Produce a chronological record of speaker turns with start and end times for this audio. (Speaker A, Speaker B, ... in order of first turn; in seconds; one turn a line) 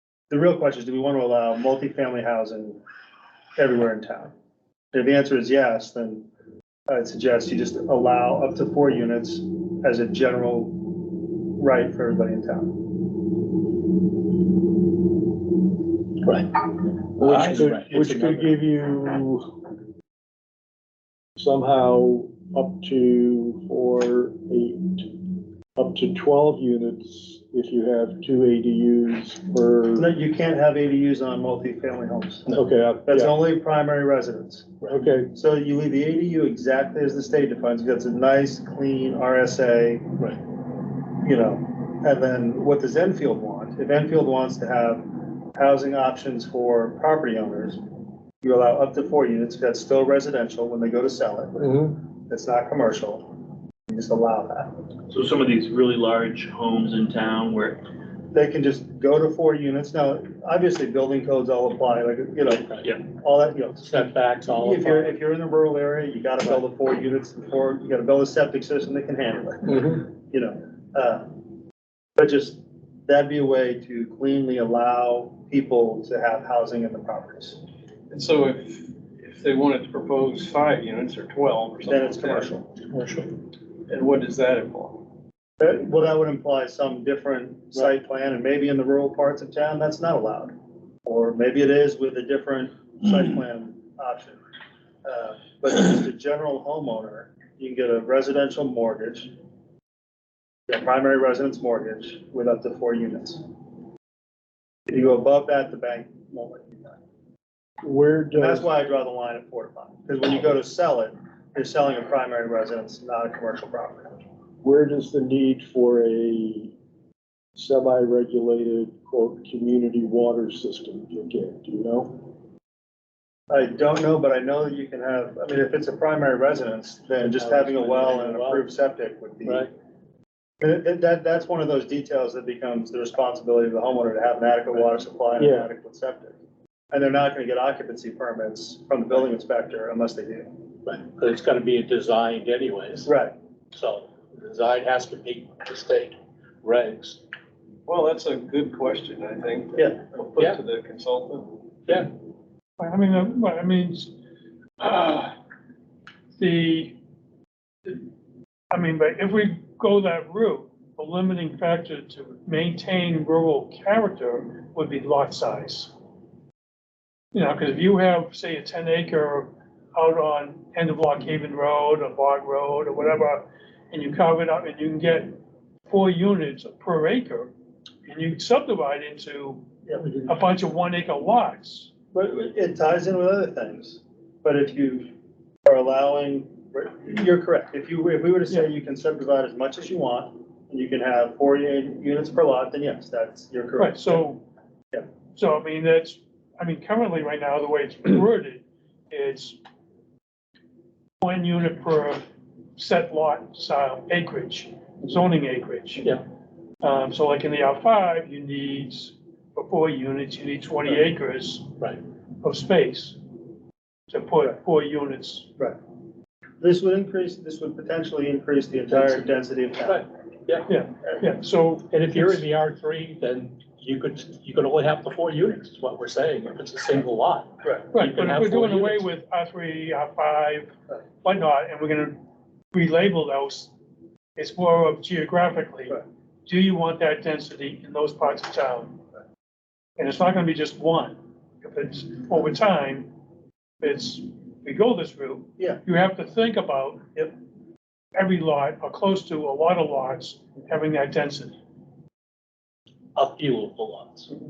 Speaker A: 0.3-2.8
Speaker A: 3.6-4.3
Speaker A: 4.9-6.2
Speaker A: 6.9-13.1
Speaker B: 16.2-18.6
Speaker C: 17.4-19.6
Speaker C: 21.4-30.2
Speaker A: 30.0-32.5
Speaker C: 32.5-33.3
Speaker A: 33.1-40.2
Speaker C: 34.9-35.3
Speaker A: 41.0-47.8
Speaker A: 48.4-54.8
Speaker D: 55.1-57.9
Speaker A: 58.3-71.5
Speaker B: 62.5-62.8
Speaker B: 63.8-65.2
Speaker E: 69.7-70.0
Speaker A: 72.2-77.6
Speaker E: 78.1-82.6
Speaker A: 81.9-82.7
Speaker E: 83.9-85.1
Speaker A: 85.6-90.5
Speaker A: 91.0-94.4
Speaker A: 95.0-99.3
Speaker A: 100.7-103.4
Speaker A: 104.9-107.0
Speaker C: 107.8-108.7
Speaker A: 108.4-114.2
Speaker C: 114.6-116.7
Speaker C: 117.6-122.3
Speaker A: 123.5-129.7
Speaker B: 127.2-128.7
Speaker B: 129.4-129.7
Speaker A: 130.6-136.4
Speaker C: 135.4-135.7
Speaker A: 136.9-140.7
Speaker B: 140.8-143.1
Speaker A: 143.1-143.3
Speaker B: 143.7-147.2
Speaker E: 147.9-151.6
Speaker F: 152.8-154.1
Speaker F: 154.8-155.3
Speaker F: 156.4-157.0
Speaker F: 158.7-165.9
Speaker F: 167.3-175.3
Speaker F: 175.9-177.5
Speaker F: 178.1-179.6
Speaker A: 179.9-180.3
Speaker F: 180.3-181.9
Speaker A: 182.1-185.1
Speaker A: 185.7-194.3
Speaker F: 193.8-194.4
Speaker F: 195.3-199.6
Speaker F: 201.2-202.2
Speaker F: 202.8-206.2
Speaker F: 206.8-211.7
Speaker F: 212.4-213.2
Speaker F: 214.1-215.5
Speaker A: 216.6-220.1
Speaker B: 218.9-220.7
Speaker F: 220.7-222.4
Speaker B: 221.9-229.1
Speaker F: 227.9-232.2
Speaker F: 232.7-233.7
Speaker F: 234.4-239.0
Speaker F: 240.0-243.1
Speaker F: 243.8-247.0
Speaker F: 248.2-251.6
Speaker B: 253.2-254.3